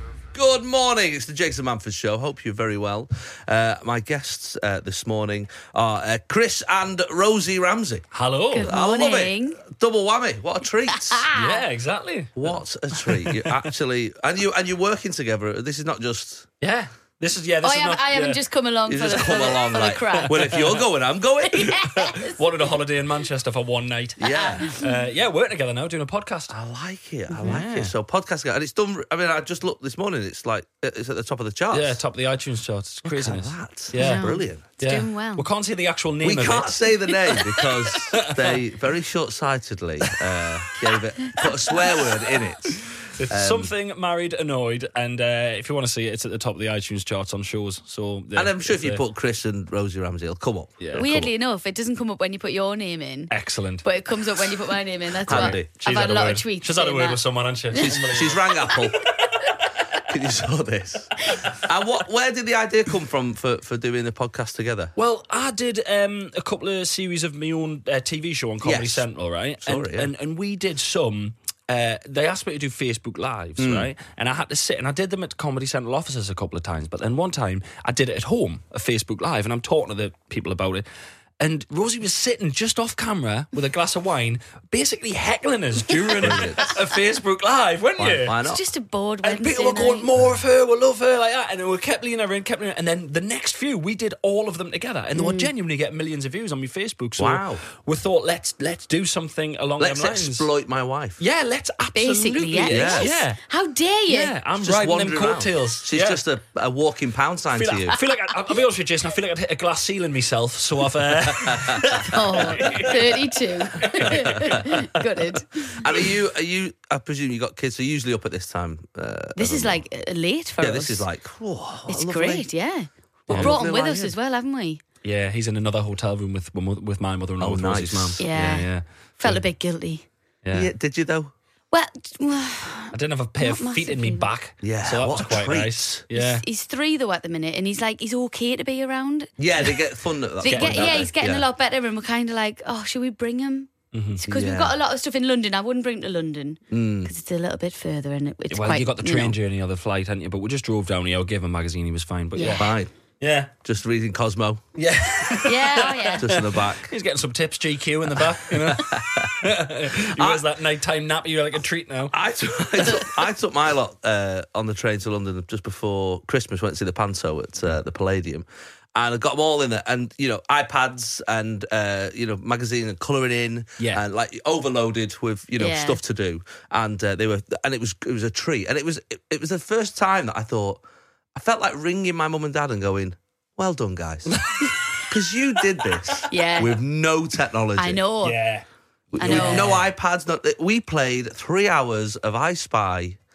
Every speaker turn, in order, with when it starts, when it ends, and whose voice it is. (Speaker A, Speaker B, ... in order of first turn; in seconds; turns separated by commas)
Speaker A: 0.3-8.1, Speaker B: 8.1-8.7, Speaker C: 8.5-9.6, Speaker A: 8.6-11.2, Speaker C: 10.9-11.6, Speaker B: 11.3-13.7, Speaker A: 12.3-16.5, Speaker B: 16.6-18.4, Speaker C: 17.6-20.5, Speaker A: 18.9-21.9, Speaker B: 20.2-20.8, Speaker C: 21.5-22.4, Speaker B: 21.9-26.5, Speaker A: 24.2-24.7, Speaker C: 24.3-25.0, Speaker A: 26.5-32.0, Speaker C: 27.3-27.6, Speaker B: 27.4-27.9, Speaker B: 31.7-36.9, Speaker A: 33.0-34.6, Speaker C: 33.9-35.5, Speaker A: 36.2-43.7, Speaker C: 37.3-37.6, Speaker B: 38.1-38.6, Speaker B: 43.0-49.0, Speaker A: 48.4-51.3, Speaker B: 50.8-51.1, Speaker C: 50.9-53.3, Speaker B: 53.3-54.5, Speaker C: 53.8-57.2, Speaker B: 55.2-58.4, Speaker A: 55.3-55.7, Speaker A: 57.7-59.1, Speaker A: 60.0-64.9, Speaker B: 65.0-80.8, Speaker A: 68.6-69.0, Speaker A: 69.6-70.1, Speaker A: 73.6-73.9, Speaker B: 81.4-88.4, Speaker C: 86.0-86.3, Speaker A: 86.2-86.8, Speaker A: 88.0-88.6, Speaker C: 88.4-90.1, Speaker B: 89.2-100.5, Speaker C: 95.2-95.5, Speaker A: 97.2-97.6, Speaker A: 99.8-101.2, Speaker B: 101.2-103.4, Speaker C: 101.9-104.3, Speaker A: 102.7-103.2, Speaker B: 104.1-106.2, Speaker A: 104.6-108.0, Speaker B: 107.5-114.6, Speaker A: 111.2-112.8, Speaker C: 112.0-115.8, Speaker A: 113.9-115.0, Speaker A: 115.7-119.8, Speaker C: 119.3-121.0, Speaker A: 120.6-122.5, Speaker C: 121.9-124.8, Speaker A: 123.3-124.1, Speaker B: 125.0-129.4, Speaker A: 127.4-128.2, Speaker C: 128.2-128.7, Speaker C: 129.2-130.1, Speaker B: 130.4-130.7, Speaker A: 130.5-131.3, Speaker C: 131.7-134.3, Speaker B: 132.9-136.4, Speaker A: 134.6-136.0, Speaker C: 136.1-139.3, Speaker A: 139.4-141.4, Speaker C: 140.4-149.3, Speaker B: 140.5-141.1, Speaker B: 143.9-144.2, Speaker A: 144.2-144.7, Speaker A: 146.7-147.1, Speaker B: 148.5-152.7, Speaker C: 152.3-152.6, Speaker A: 152.5-152.9, Speaker B: 153.2-153.5, Speaker A: 153.6-154.6, Speaker B: 154.8-162.1, Speaker C: 155.3-156.2, Speaker A: 156.2-156.9, Speaker A: 158.2-160.4, Speaker A: 162.1-180.8, Speaker B: 173.8-174.0, Speaker C: 175.6-176.0, Speaker A: 181.3-184.4, Speaker B: 184.3-185.0, Speaker A: 185.0-188.0, Speaker B: 185.9-186.2, Speaker C: 186.3-186.8, Speaker C: 187.8-188.4, Speaker B: 188.2-189.9, Speaker A: 189.1-193.2, Speaker C: 189.2-189.7